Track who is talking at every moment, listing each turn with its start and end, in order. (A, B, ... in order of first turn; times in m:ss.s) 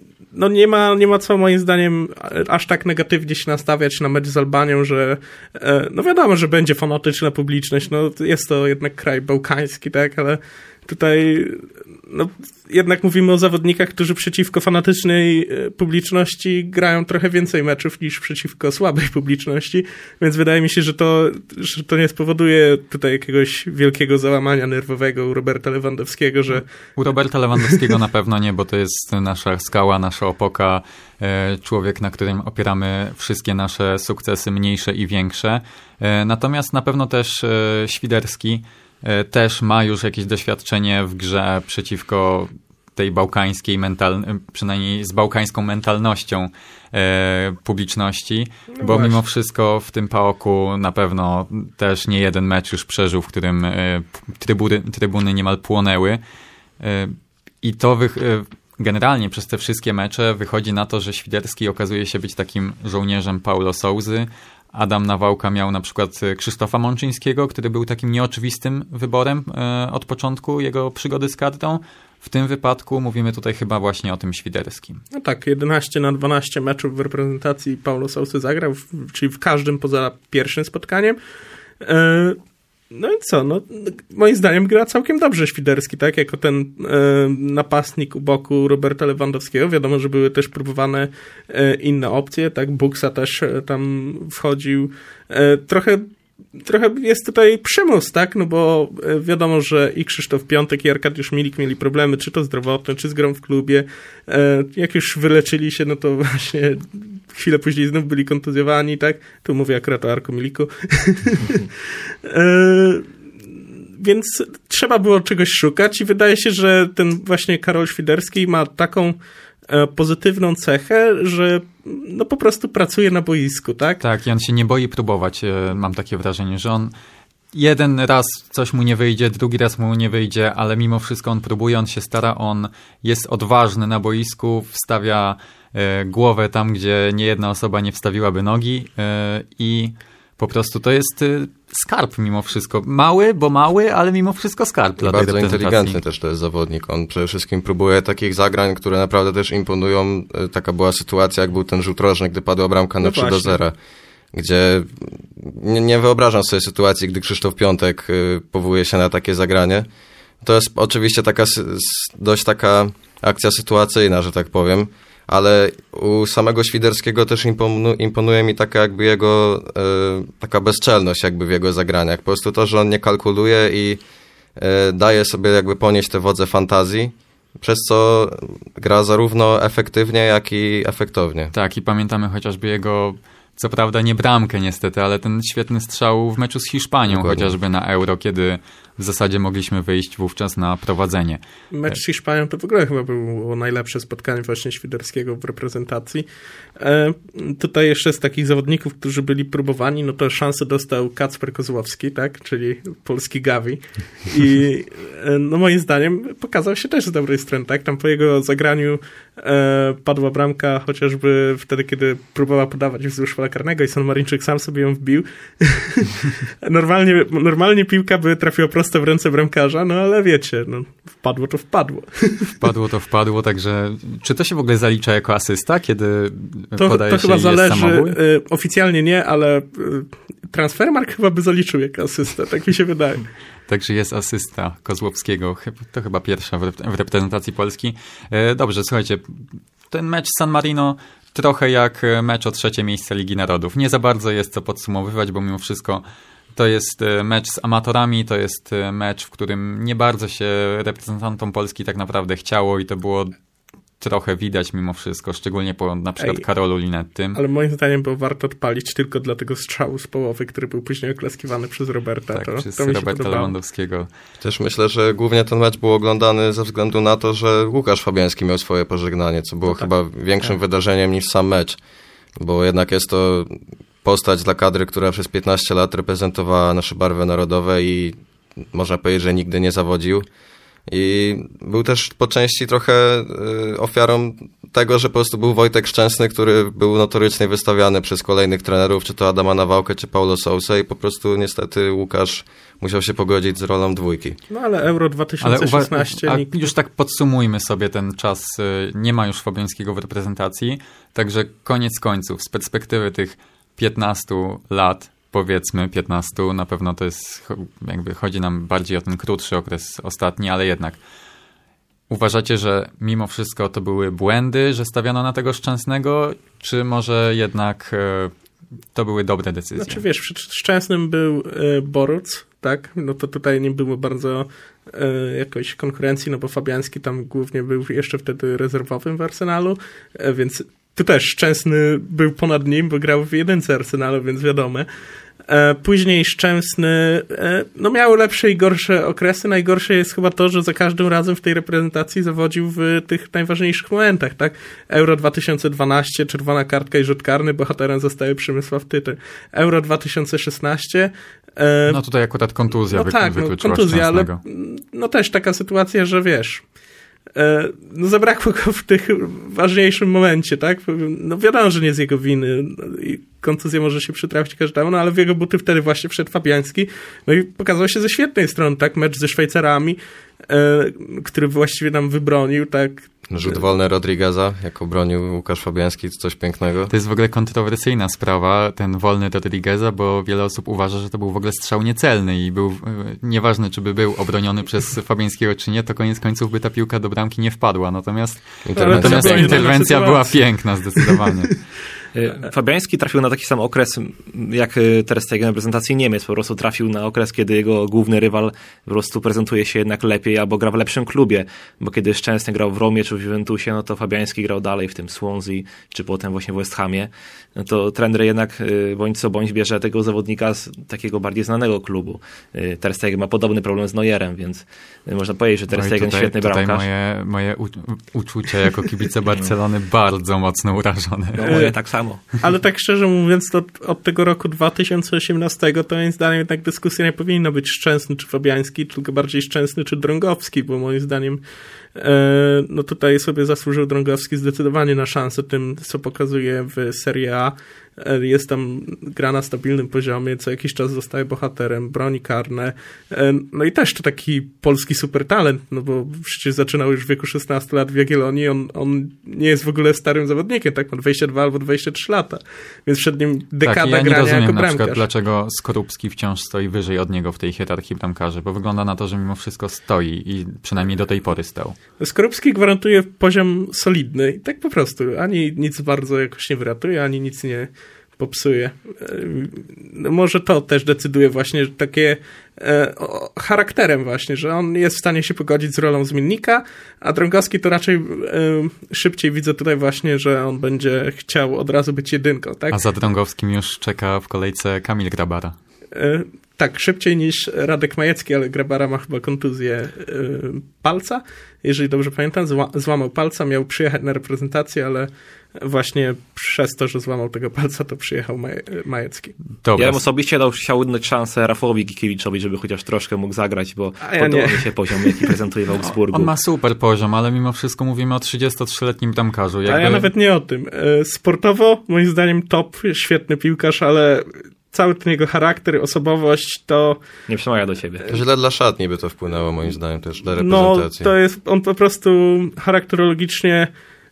0:00.3-0:26.6 A
0:26.5-0:56.2 B
0:48.7-0:49.2 A
0:56.8-1:15.0 B
1:15.1-1:21.2 A
1:21.8-1:22.4 A
1:22.9-1:51.7 A
1:52.2-1:53.1 A
1:54.0-1:59.2 A
1:59.7-2:04.0 A
2:04.0-2:06.9 B
2:07.5-2:26.0 B
2:25.0-2:33.7 C
2:33.0-2:33.6 A
2:34.3-2:39.9 C
2:40.4-2:54.0 C
2:54.6-3:01.5 C
3:01.5-3:12.0 B
3:07.1-3:07.5 C
3:11.7-3:16.3 A
3:16.8-3:42.6 A
3:42.6-3:48.2 B
3:46.8-3:53.3 A
3:53.7-4:06.0 B
4:06.6-4:13.4 B
4:14.0-4:17.4 B
4:17.4-4:23.5 A
4:22.3-4:24.1 B
4:24.4-4:31.8 C
4:32.4-4:38.2 C
4:38.7-4:40.2 C
4:40.9-4:54.4 C
4:54.5-4:56.6 A
4:55.4-5:11.0 B
5:12.1-5:18.3 B
5:18.9-5:20.0 B
5:19.8-5:34.9 A
5:35.5-5:52.0 A
5:51.9-5:54.4 B
5:52.9-5:56.6 A
5:57.4-6:10.0 A
6:10.5-6:13.6 A
6:13.3-6:16.9 C
6:16.9-6:31.6 B
6:28.6-6:29.8 C
6:28.8-6:31.2 A
6:32.1-6:56.9 D
6:55.7-7:01.7 B
7:01.3-7:02.2 D
7:01.4-7:01.7 A
7:02.4-7:11.4 A
7:12.0-7:35.0 A
7:33.6-7:41.8 B
7:42.0-8:02.8 A
8:02.7-8:05.6 B
8:06.0-8:19.4 A
8:19.6-8:20.0 B
8:19.8-8:26.3 D
8:24.0-8:25.4 A
8:25.8-8:30.1 B
8:29.7-8:37.1 A
8:37.3-8:38.1 D
8:38.1-8:41.1 C
8:40.4-8:43.7 A